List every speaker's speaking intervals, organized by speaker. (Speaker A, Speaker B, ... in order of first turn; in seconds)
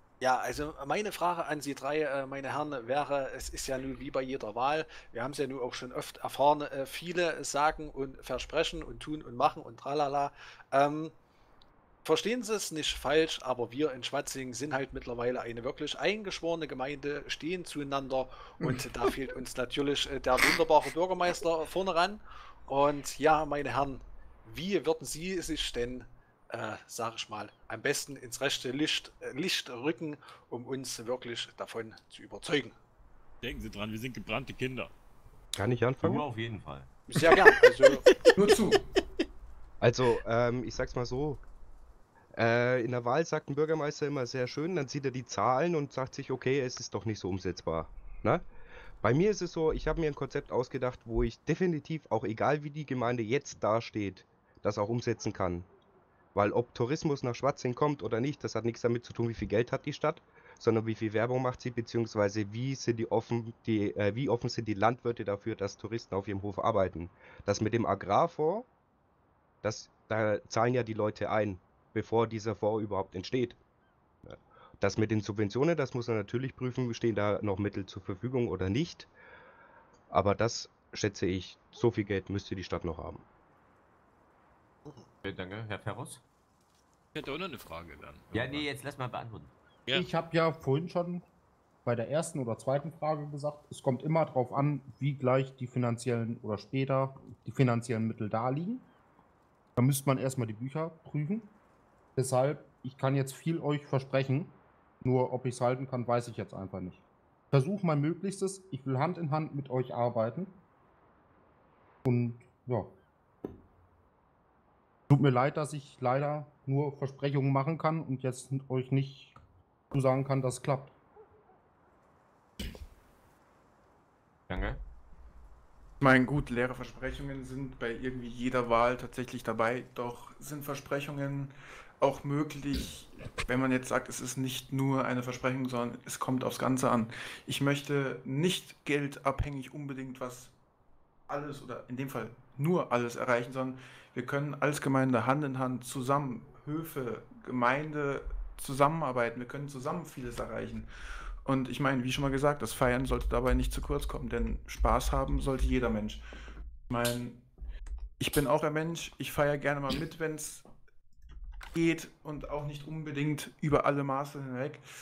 Speaker A: 0.2-11.1, 12.0-32.7, 37.1-38.0
Speaker B: 33.4-34.9, 37.2-38.2, 87.1-88.7
Speaker C: 35.6-36.2, 39.8-41.4, 42.3-48.4, 49.0-55.7, 56.3-68.7, 69.6-73.6, 74.3-79.1, 80.1-83.2
Speaker D: 36.0-36.9, 85.2-86.2, 88.3-89.5, 124.5-124.8
Speaker E: 38.4-38.8, 126.0-140.5, 141.3-150.9, 151.4-156.2, 156.9-157.4, 158.2-160.7, 161.7-164.8
Speaker F: 89.9-91.3, 91.8-98.9, 99.8-101.5, 102.2-110.6, 112.0-112.9, 115.1-119.3, 119.9-120.9